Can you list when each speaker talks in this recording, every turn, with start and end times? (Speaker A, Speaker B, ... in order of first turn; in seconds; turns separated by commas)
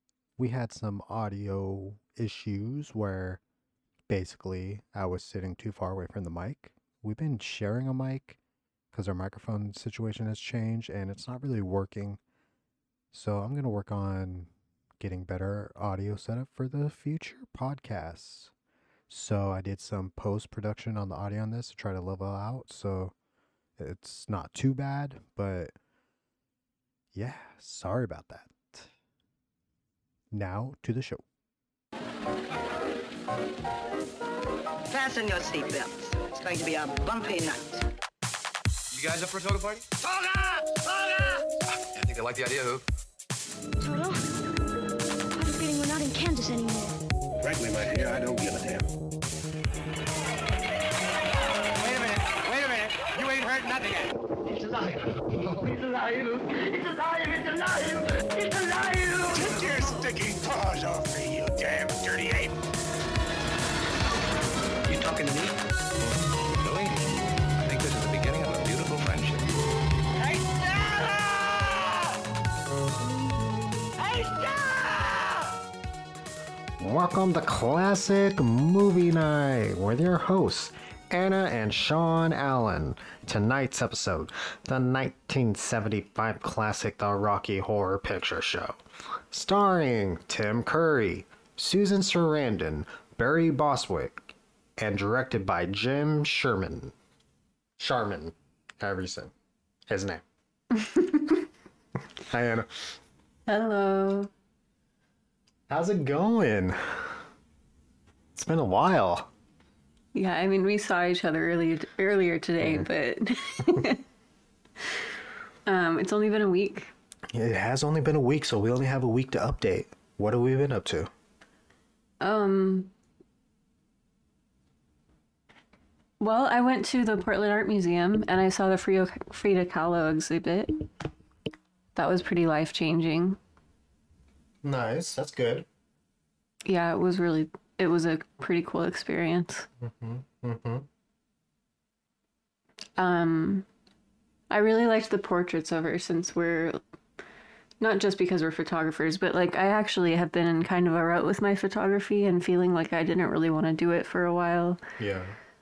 Speaker A: 0.4-3.4, Speaker A: 4.1-8.4, Speaker A: 8.9-12.2, Speaker A: 13.1-18.5, Speaker A: 19.1-23.1, Speaker A: 23.8-25.7, Speaker A: 27.1-28.9, Speaker A: 30.3-31.2, Speaker B: 34.9-37.8, Speaker C: 38.9-39.9, Speaker C: 42.0-42.8, Speaker D: 43.8-44.2, Speaker D: 45.4-47.0, Speaker E: 47.4-48.9, Speaker C: 52.4-53.8, Speaker E: 59.3-62.6, Speaker C: 64.8-65.5, Speaker C: 66.6-67.0, Speaker C: 67.6-69.5, Speaker A: 76.8-96.9, Speaker A: 97.8-99.3, Speaker A: 99.9-100.2, Speaker F: 100.8-101.4, Speaker A: 102.2-102.9, Speaker F: 103.5-104.3, Speaker A: 105.7-107.2, Speaker A: 108.3-109.3, Speaker F: 110.1-114.0, Speaker A: 112.6-112.9, Speaker F: 115.7-116.9, Speaker A: 117.3-121.1, Speaker F: 122.2-122.9, Speaker F: 126.2-130.8, Speaker F: 131.9-133.4, Speaker A: 134.6-135.7, Speaker F: 136.7-139.7, Speaker A: 139.8-140.8, Speaker F: 143.0-143.6, Speaker F: 144.5-146.8, Speaker F: 147.8-154.8, Speaker A: 155.0-155.3